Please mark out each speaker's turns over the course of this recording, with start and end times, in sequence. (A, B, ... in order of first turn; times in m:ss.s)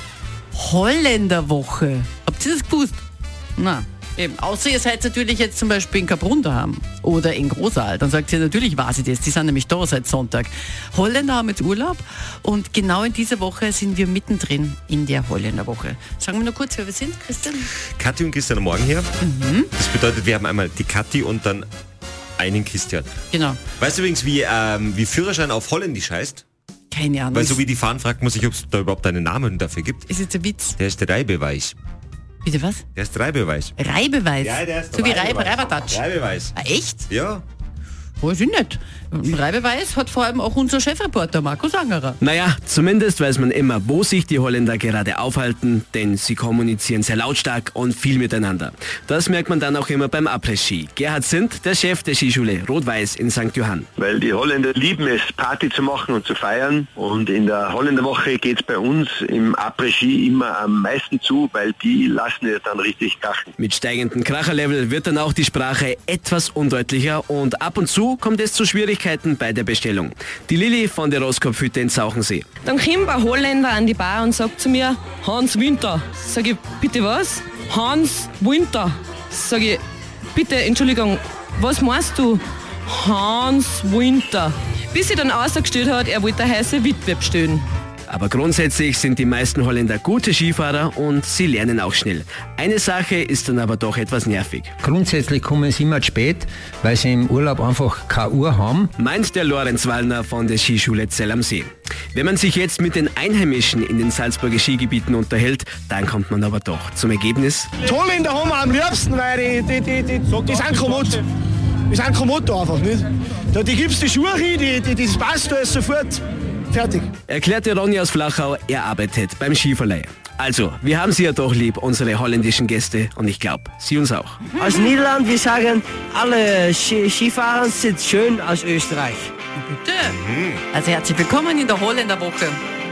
0:00.5-0:03.0 A
0:03.6-0:17.7 A
0:18.0-0:19.1 B
0:19.2-0:19.7 A
0:19.7-0:21.6 B
0:22.4-0:23.1 B
0:23.3-0:23.6 A
0:23.8-0:26.4 B
0:26.9-0:27.6 A
0:27.3-0:30.1 B
0:30.1-0:30.8 A
0:30.8-0:31.7 B
0:32.4-0:32.8 A
0:32.9-0:33.7 B
0:33.8-0:36.0 A
0:34.4-0:36.5 B
0:36.5-0:37.1 A
0:37.1-0:37.4 B
0:38.2-0:42.2 A
0:42.2-0:53.9 C
0:54.0-1:03.5 D
1:03.6-1:12.5 C
1:12.6-1:19.8 E
1:20.3-1:27.6 E
1:28.1-1:34.7 C
1:34.8-1:38.9 F
1:39.0-1:47.7 C
1:47.8-1:51.2 G
1:51.9-1:56.2 G
1:56.7-1:57.1 G
1:57.3-2:04.5 C
2:04.6-2:09.3 H
2:09.6-2:10.2 A
2:10.0-2:10.6 B
2:10.7-2:12.6 A